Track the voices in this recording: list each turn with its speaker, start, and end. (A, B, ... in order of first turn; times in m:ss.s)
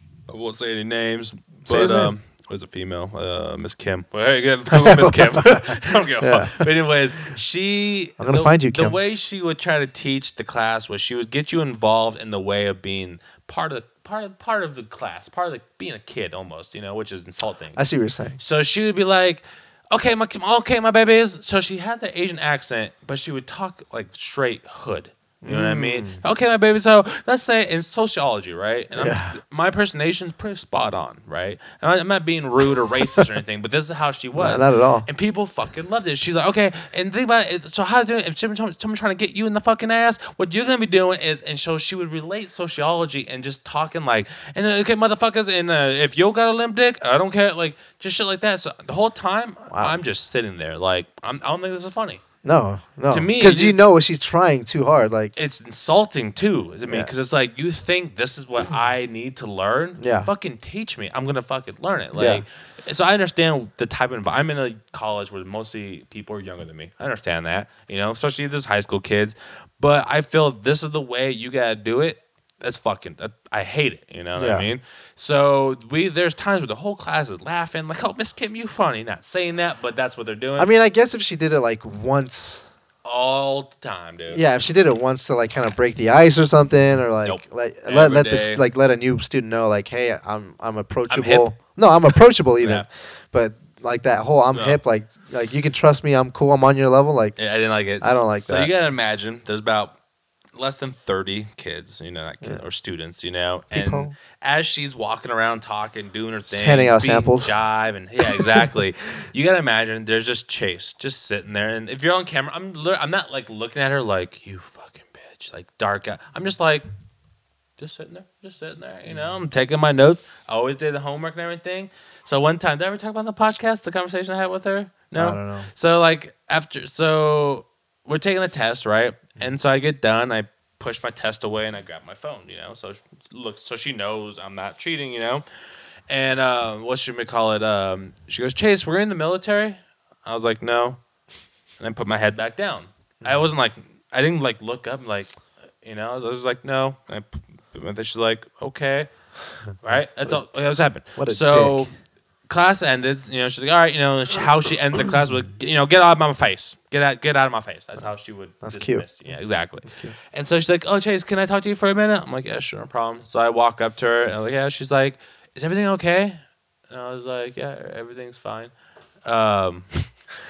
0:00.3-0:17.8 A
0:01.6-0:02.1 B
0:04.7-0:06.7 B
0:08.2-0:09.0 B
0:17.8-0:18.4 B
0:18.4-0:52.2 A
0:25.4-0:26.2 B
0:28.9-0:29.4 B
0:34.4-0:35.1 B
0:49.7-0:50.0 B
0:52.4-0:55.4 B
0:53.1-0:53.8 A
0:55.4-1:20.7 A
1:00.0-1:00.3 B
1:02.2-1:02.4 B
1:14.4-1:14.7 B
1:20.6-1:22.7 B
1:23.0-1:24.4 A
1:24.3-1:37.4 B
1:27.2-1:28.6 A
1:31.1-1:31.5 A
1:32.6-1:32.9 A
1:34.5-1:34.8 A
1:37.4-1:40.0 A
1:38.0-1:38.7 B
1:40.6-1:56.9 A
1:43.7-1:44.2 B
1:46.5-1:47.5 B
1:57.8-2:15.4 A
2:05.2-2:05.7 B
2:16.1-2:21.0 A
2:21.8-2:29.1 A
2:23.2-2:23.5 B
2:29.8-2:31.9 A
2:29.9-2:30.3 B
2:31.2-2:31.9 B
2:32.5-2:48.7 A
2:38.6-2:39.1 B
2:39.8-2:40.2 B
2:49.2-2:50.1 A